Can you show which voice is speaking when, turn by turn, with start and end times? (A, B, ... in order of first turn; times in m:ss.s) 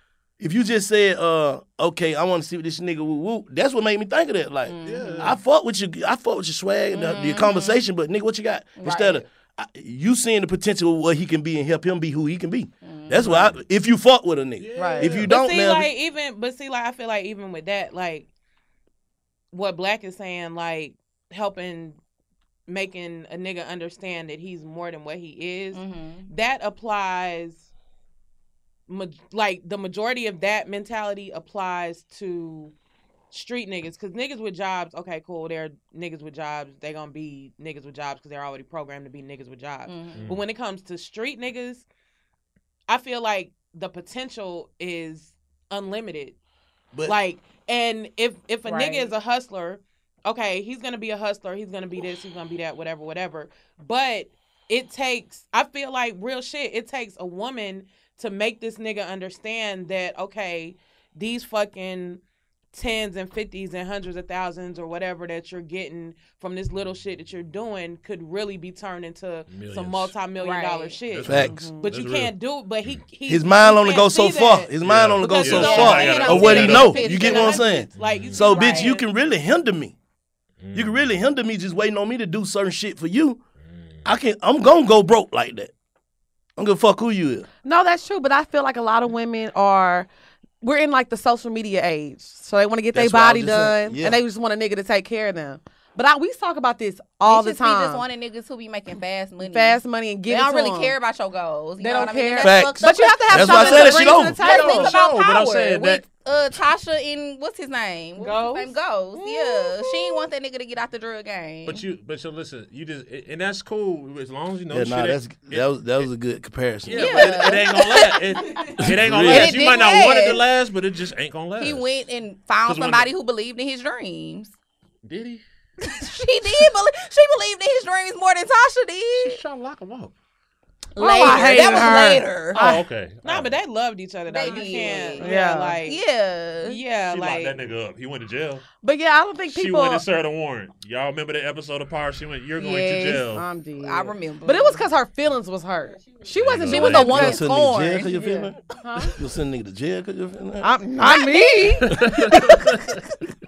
0:00.4-0:15.9 A
0:04.7-0:05.3 B
0:04.8-0:05.4 C
0:06.9-0:07.8 B
0:08.8-0:09.2 B
0:12.8-0:13.2 B
0:13.2-0:13.6 C
0:14.6-0:15.4 C
0:14.8-0:15.2 D
0:15.2-0:18.3 E
0:19.5-0:22.0 E
0:22.7-0:27.7 E
0:25.7-0:26.3 B
0:28.9-0:32.7 E
0:33.3-0:41.8 E
0:39.9-0:40.2 B
0:40.1-0:40.4 C
0:42.9-0:46.4 E
0:47.0-1:02.2 E
0:48.6-0:49.1 B
1:02.7-1:19.0 E
1:09.5-1:10.1 C
1:10.4-1:11.0 B
1:11.1-1:12.3 C
1:11.2-1:11.6 A
1:11.4-1:11.9 D
1:13.3-1:19.9 A
1:14.8-1:17.0 C
1:15.5-1:17.8 B
1:18.0-1:18.5 C
1:18.5-1:19.0 B
1:20.6-1:21.2 C
1:20.7-1:23.4 A
1:23.6-1:24.0 C
1:24.0-1:25.7 A
1:26.6-1:27.5 A
1:27.6-1:30.1 D
1:30.6-1:38.0 D
1:32.9-1:34.2 A
1:37.2-1:51.8 B
1:39.4-1:40.9 D
1:41.8-1:44.9 D
1:42.4-1:44.4 A
1:44.4-1:46.0 C
1:48.2-1:48.7 E
1:49.2-1:50.2 D
1:51.6-1:55.7 C
1:54.7-1:57.4 A
1:56.9-2:01.8 C
1:56.9-1:58.6 B
1:58.8-1:59.6 A
1:59.2-2:00.4 B
2:01.6-2:04.5 B
2:02.6-2:03.1 C
2:05.0-2:05.4 C
2:05.9-2:09.4 B
2:09.1-2:10.1 C
2:11.0-2:12.6 B
2:11.0-2:12.8 D
2:12.5-2:13.6 C
2:13.2-2:16.0 E
2:14.3-2:16.8 B
2:15.2-2:15.8 D
2:16.6-2:17.7 E
2:17.1-2:18.6 C
2:18.8-2:20.0 D
2:19.5-2:23.4 C
2:22.6-2:24.8 B
2:23.3-2:27.4 D
2:26.4-2:27.4 C
2:26.6-2:28.1 B
2:27.0-2:30.7 A
2:28.1-2:29.2 D
2:30.6-2:32.9 D
2:31.0-2:31.8 B
2:31.9-2:32.9 C